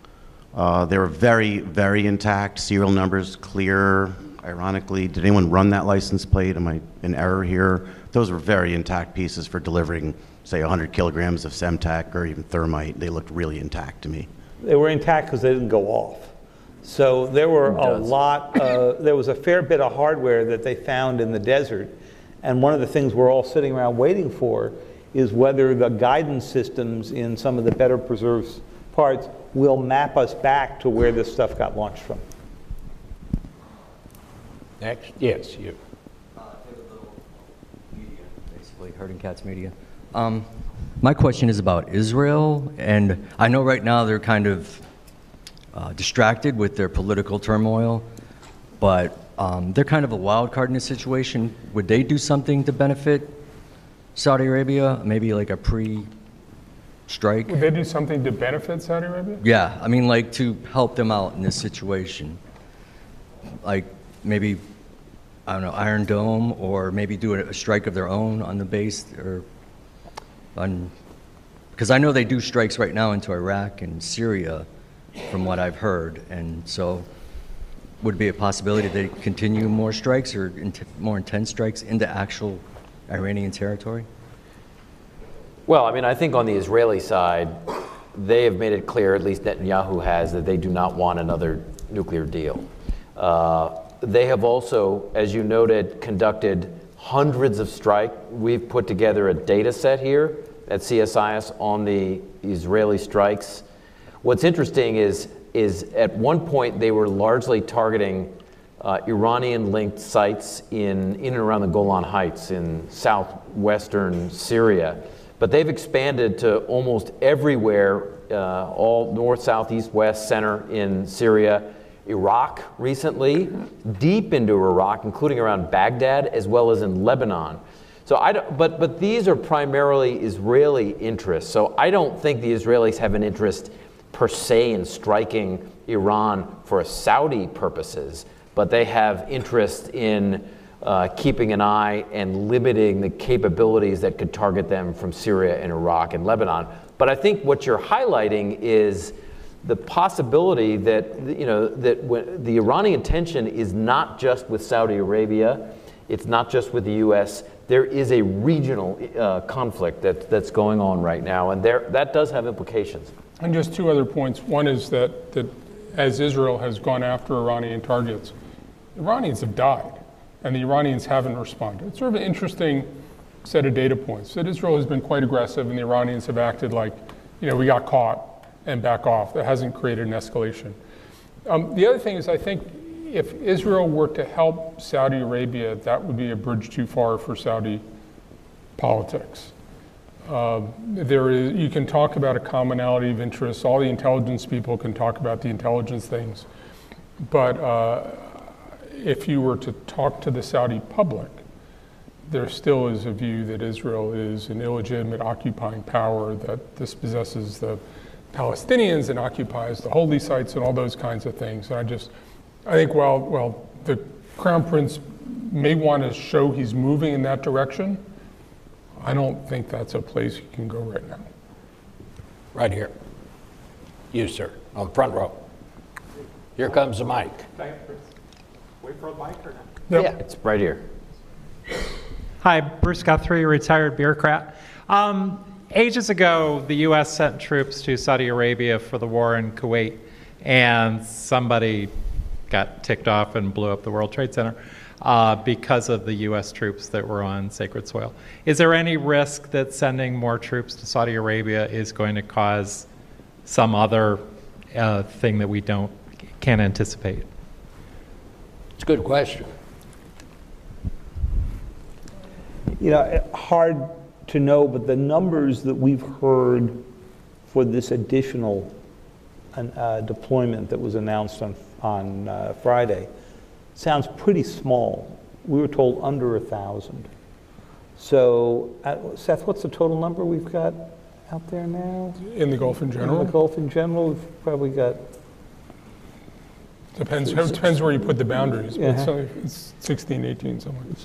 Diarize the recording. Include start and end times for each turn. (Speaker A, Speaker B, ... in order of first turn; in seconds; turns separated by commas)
Speaker A: 0.5-14.3, Speaker B: 14.6-32.2, Speaker C: 17.6-18.1, Speaker D: 34.8-35.8, Speaker E: 37.9-40.5, Speaker E: 41.0-44.8, Speaker E: 45.7-48.0, Speaker E: 48.8-53.4, Speaker E: 54.1-56.1, Speaker E: 57.1-57.6, Speaker F: 57.5-59.4, Speaker E: 59.4-62.4, Speaker E: 63.6-64.6, Speaker E: 65.5-69.4, Speaker E: 70.5-70.9, Speaker E: 71.8-74.7, Speaker E: 75.3-77.0, Speaker E: 78.0-84.1, Speaker C: 85.7-87.6, Speaker C: 88.1-103.6, Speaker C: 104.2-163.1, Speaker F: 163.4-168.3, Speaker F: 168.9-172.9, Speaker F: 173.4-180.8, Speaker F: 181.4-187.8, Speaker F: 188.8-189.5, Speaker F: 190.2-196.4, Speaker F: 197.2-201.4, Speaker F: 202.3-207.8, Speaker F: 208.3-212.1, Speaker F: 212.6-218.0, Speaker F: 219.0-221.2, Speaker D: 222.5-222.9, Speaker D: 224.1-225.3, Speaker D: 226.6-227.5, Speaker C: 230.1-230.8, Speaker G: 232.4-241.9, Speaker G: 242.5-252.8, Speaker G: 253.4-257.2, Speaker D: 258.8-259.5, Speaker B: 262.8-266.9, Speaker B: 267.5-268.7, Speaker B: 269.5-273.1, Speaker B: 273.7-277.1, Speaker B: 278.0-282.2, Speaker F: 282.2-283.3, Speaker B: 283.0-285.0, Speaker F: 286.9-290.9, Speaker B: 288.7-289.1